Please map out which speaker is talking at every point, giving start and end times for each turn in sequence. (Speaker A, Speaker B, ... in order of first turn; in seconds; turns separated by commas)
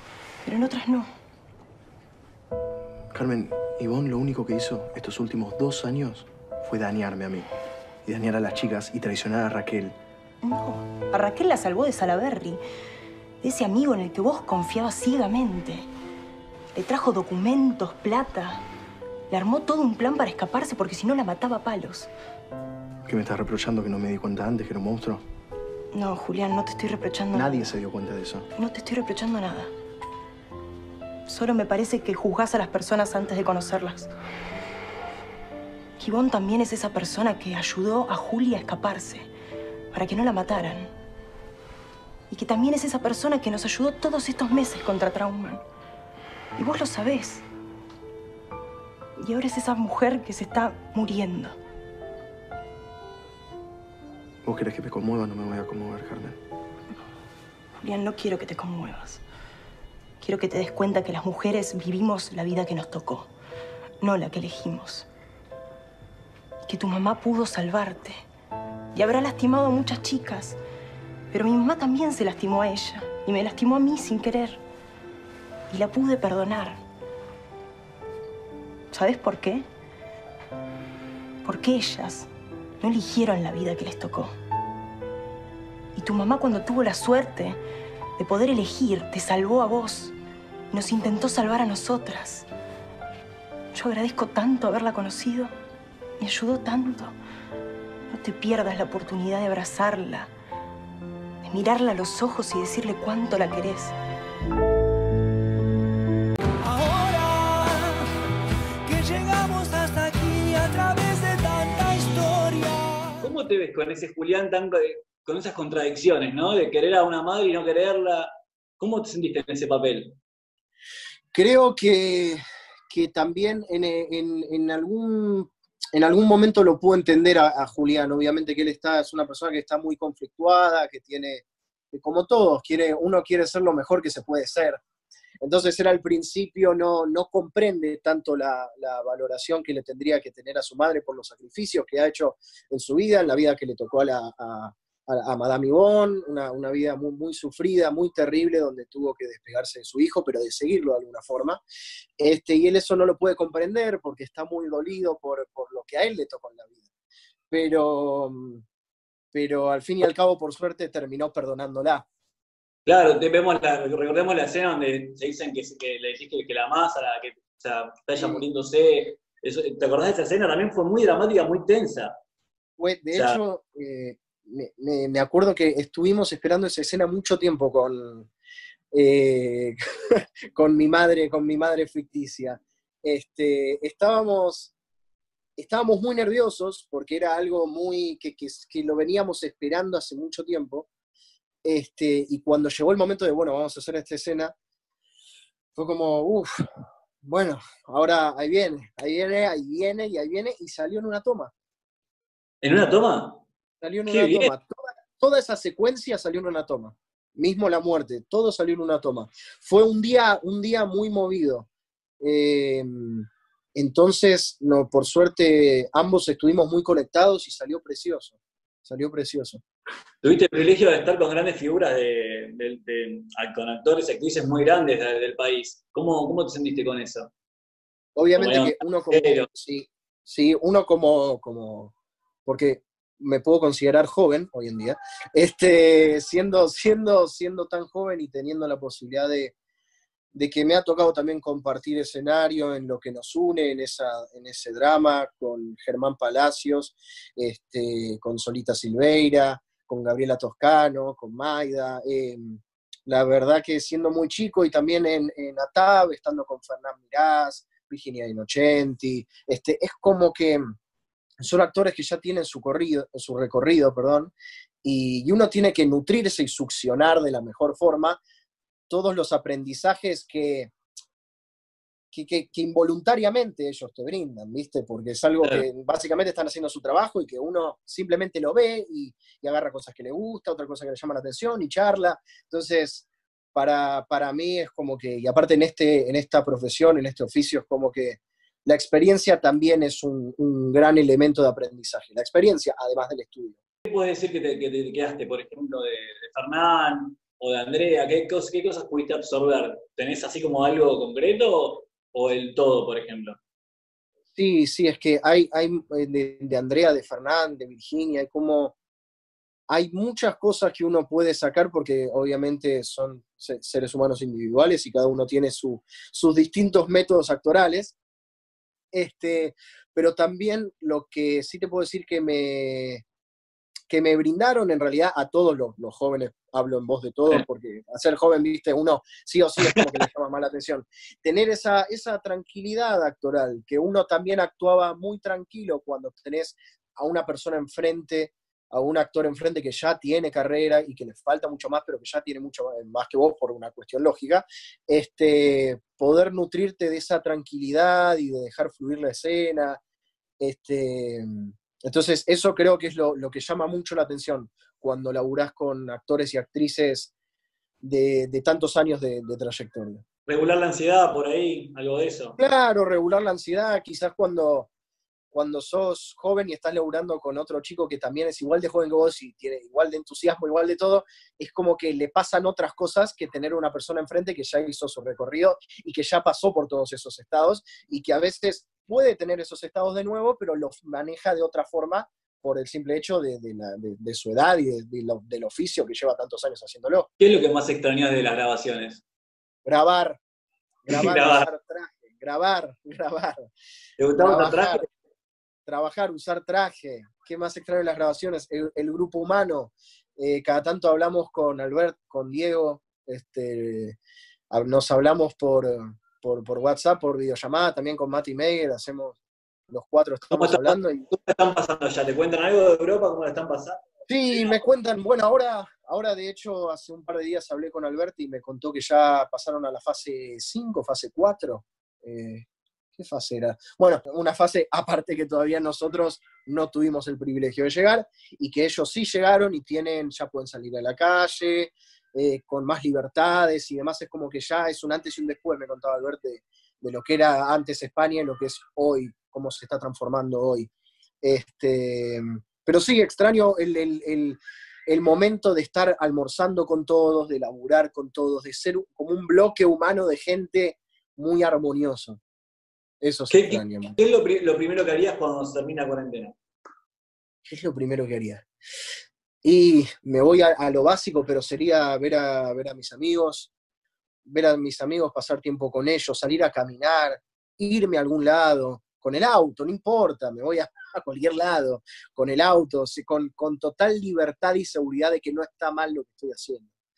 Speaker A: 0.4-1.1, Speaker B: 3.1-7.5, Speaker B: 8.0-10.0, Speaker A: 10.4-12.6, Speaker A: 13.4-15.9, Speaker A: 16.7-18.6, Speaker A: 19.3-22.1, Speaker B: 23.1-25.2, Speaker A: 25.9-27.7, Speaker B: 27.3-28.5, Speaker A: 28.6-29.7, Speaker A: 31.3-34.1, Speaker A: 36.0-39.3, Speaker A: 39.9-40.9, Speaker A: 42.3-45.6, Speaker A: 46.6-47.5, Speaker A: 49.2-51.6, Speaker B: 54.4-56.4, Speaker A: 57.8-59.2, Speaker A: 60.2-63.3, Speaker A: 64.0-65.1, Speaker A: 66.7-68.2, Speaker A: 68.9-70.6, Speaker A: 71.3-74.6, Speaker A: 75.7-76.8, Speaker A: 78.9-79.7, Speaker A: 81.4-82.3, Speaker A: 82.8-84.3, Speaker A: 86.0-87.6, Speaker A: 88.2-90.1, Speaker A: 90.7-92.5, Speaker A: 93.7-95.5, Speaker A: 96.2-97.2, Speaker A: 98.1-100.3, Speaker A: 101.4-104.0, Speaker C: 106.6-108.2, Speaker C: 108.8-113.2, Speaker D: 113.2-120.2, Speaker E: 121.3-134.8, Speaker E: 135.4-151.6, Speaker E: 152.2-156.8, Speaker E: 157.5-158.6, Speaker E: 159.3-162.1, Speaker D: 162.9-172.2, Speaker E: 168.2-168.4, Speaker E: 172.8-178.3, Speaker D: 173.1-173.4, Speaker E: 178.9-184.7, Speaker E: 185.6-190.9, Speaker E: 191.6-194.5, Speaker E: 195.8-196.7, Speaker E: 197.2-201.5, Speaker D: 202.6-203.4, Speaker E: 203.8-211.7, Speaker D: 204.1-204.5, Speaker E: 212.2-219.6, Speaker D: 220.2-227.3, Speaker E: 228.2-231.9, Speaker D: 228.4-229.5, Speaker E: 232.4-239.6, Speaker E: 240.3-260.7, Speaker E: 261.4-268.2, Speaker E: 268.9-270.7, Speaker E: 272.1-293.6, Speaker D: 293.9-303.4, Speaker E: 304.4-308.7, Speaker E: 309.7-317.9, Speaker E: 318.9-323.0, Speaker E: 323.9-349.8, Speaker D: 329.6-329.9, Speaker E: 350.4-357.1, Speaker E: 357.8-360.0, Speaker D: 360.3-362.4, Speaker E: 362.4-364.7, Speaker E: 365.3-387.1, Speaker D: 387.2-389.0, Speaker E: 389.6-390.2, Speaker E: 390.9-393.5, Speaker D: 390.9-391.5, Speaker D: 394.0-394.9, Speaker E: 394.2-394.9, Speaker E: 395.7-404.0, Speaker E: 404.5-409.2, Speaker E: 409.7-411.2, Speaker D: 410.3-413.8, Speaker E: 414.1-440.7, Speaker D: 414.3-414.6, Speaker E: 441.2-452.2, Speaker E: 453.0-454.0, Speaker D: 453.3-456.4, Speaker E: 457.4-458.5, Speaker E: 459.4-463.5, Speaker E: 464.2-476.7